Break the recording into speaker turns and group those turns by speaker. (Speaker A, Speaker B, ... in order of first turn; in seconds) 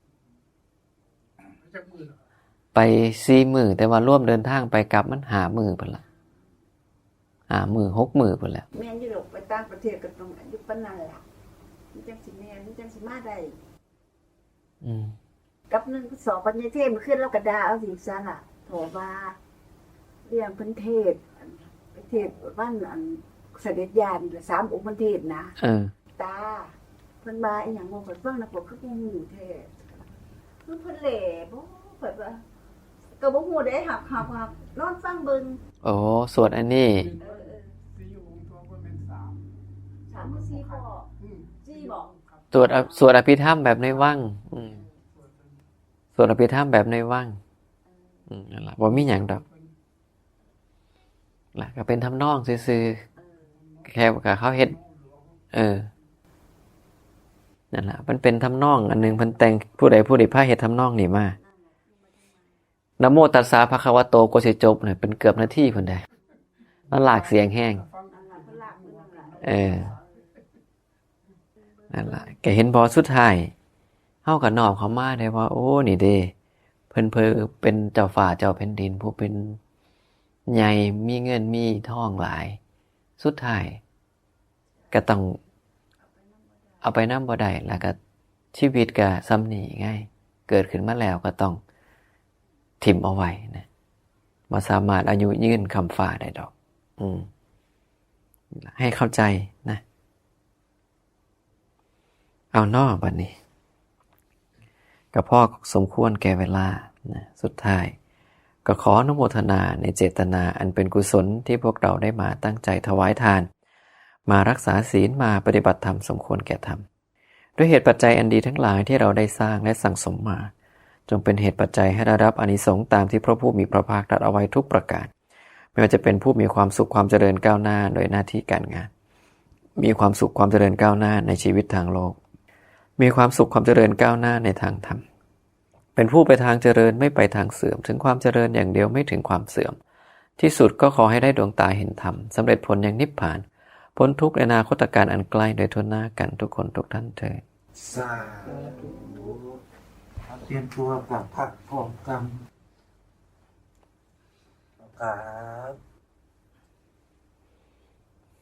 Speaker A: 1.5-2.2, 36.9-39.5, 40.1-42.6, 44.8-45.6, 48.9-49.7, 53.5-53.9, 54.6-55.4, 66.9-70.5
Speaker B: 2.7-6.0, 7.5-8.7, 14.8-15.2, 25.6-25.9, 35.8-37.1, 42.5-44.7, 46.1-47.4, 48.3-49.4, 51.5-53.0, 53.9-54.8, 55.5-55.9, 57.7-61.4, 63.0-66.0, 66.9-67.8, 69.4-69.9, 71.9-73.5, 74.2-76.3, 76.9-79.6, 80.5-82.6, 83.2-83.8, 84.9-85.4, 86.8-88.0, 88.5-91.6, 92.8-93.7, 94.5-97.3, 98.5-99.8, 102.5-103.3, 105.1-107.9, 108.6-113.5, 114.2-116.8, 117.6-120.5, 121.1-125.1, 125.7-128.9, 129.8-132.2, 133.0-135.0, 135.9-139.8, 140.4-147.4
Speaker C: 8.7-11.2, 11.9-13.6, 15.7-19.4, 20.2-25.6, 26.1-32.4, 33.2-35.6, 37.2-37.7, 40.1-41.1, 41.6-43.0, 53.2-53.5, 61.4-62.5, 68.1-70.0, 71.8-72.2, 86.0-86.8
Speaker D: 147.8-149.6, 150.3-152.4, 154.8-155.8